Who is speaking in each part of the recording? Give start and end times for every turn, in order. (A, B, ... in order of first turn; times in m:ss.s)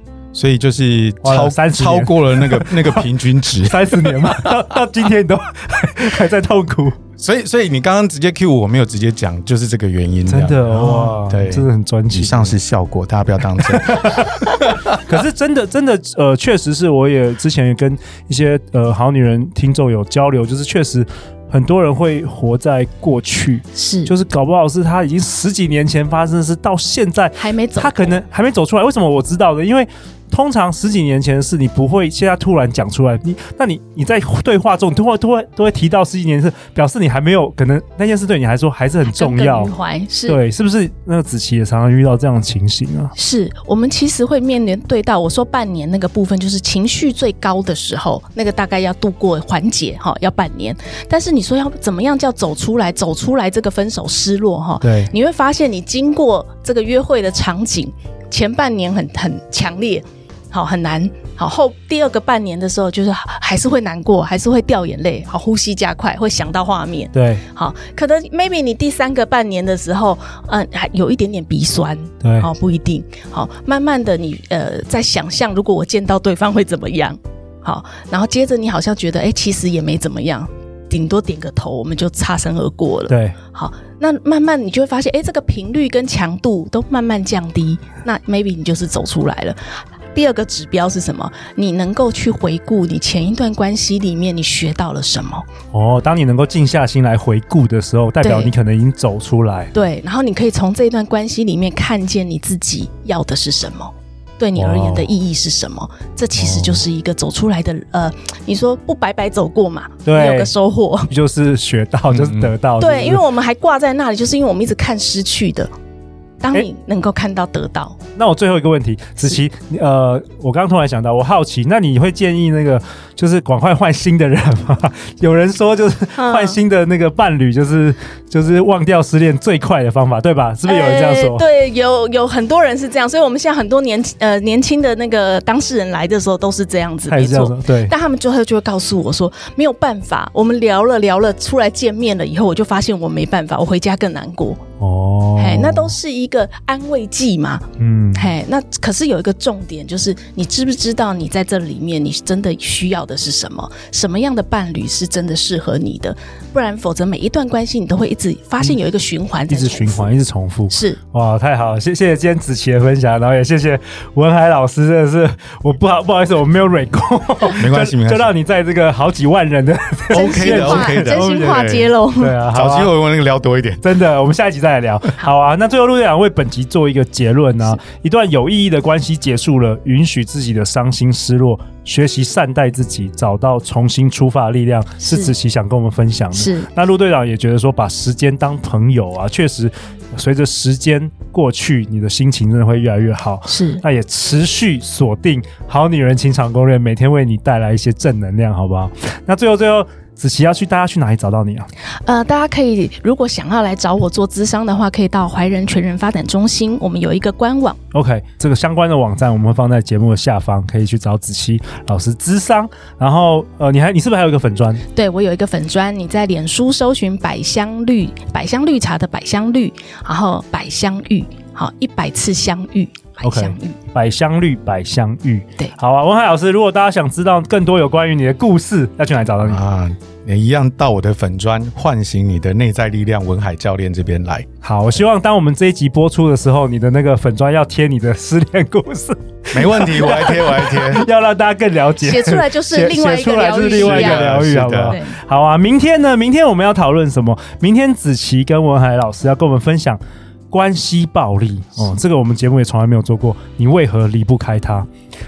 0:00.3-0:04.6 A
0:01.2-0:03.1 B
0:03.6-0:07.0 B
0:07.2-0:14.9 A
0:10.3-0:12.5 B
0:13.6-0:39.7 B
0:23.8-0:24.1 C
0:27.4-0:28.2 C
0:39.0-0:40.4 C
0:40.2-0:43.1 B
0:43.2-1:35.4 C
0:54.8-0:55.1 B
1:07.1-1:07.4 B
1:12.2-1:12.5 B
1:23.1-1:23.4 B
1:35.7-1:39.7 B
1:38.2-1:38.5 C
1:39.7-1:51.1 C
1:44.5-1:45.1 B
1:46.4-1:46.8 B
1:50.0-1:50.5 B
1:51.1-1:53.2 B
1:52.1-1:52.5 A
1:52.8-1:55.7 C
1:56.4-1:58.0 C
1:58.2-2:11.4 B
2:06.2-2:06.6 C
2:10.6-2:24.6 C
2:17.1-2:17.9 B
2:24.8-2:26.0 B
2:25.4-2:40.1 C
2:27.8-2:28.3 B
2:39.5-2:52.9 B
2:40.7-2:41.0 C
2:47.6-2:48.3 A
2:50.1-2:52.4 C
2:50.1-2:51.9 A
2:52.5-2:53.8 A
2:53.8-3:21.7 B
3:05.0-3:05.3 C
3:06.3-3:06.7 C
3:13.5-3:13.8 C
3:22.0-3:27.8 C
3:27.9-3:34.8 B
3:34.9-3:43.8 C
3:43.2-3:49.6 B
3:49.4-3:54.5 A
3:54.6-4:10.0 B
3:59.5-4:01.0 A
4:02.0-4:05.2 C
4:03.7-4:05.0 A
4:10.5-4:14.9 B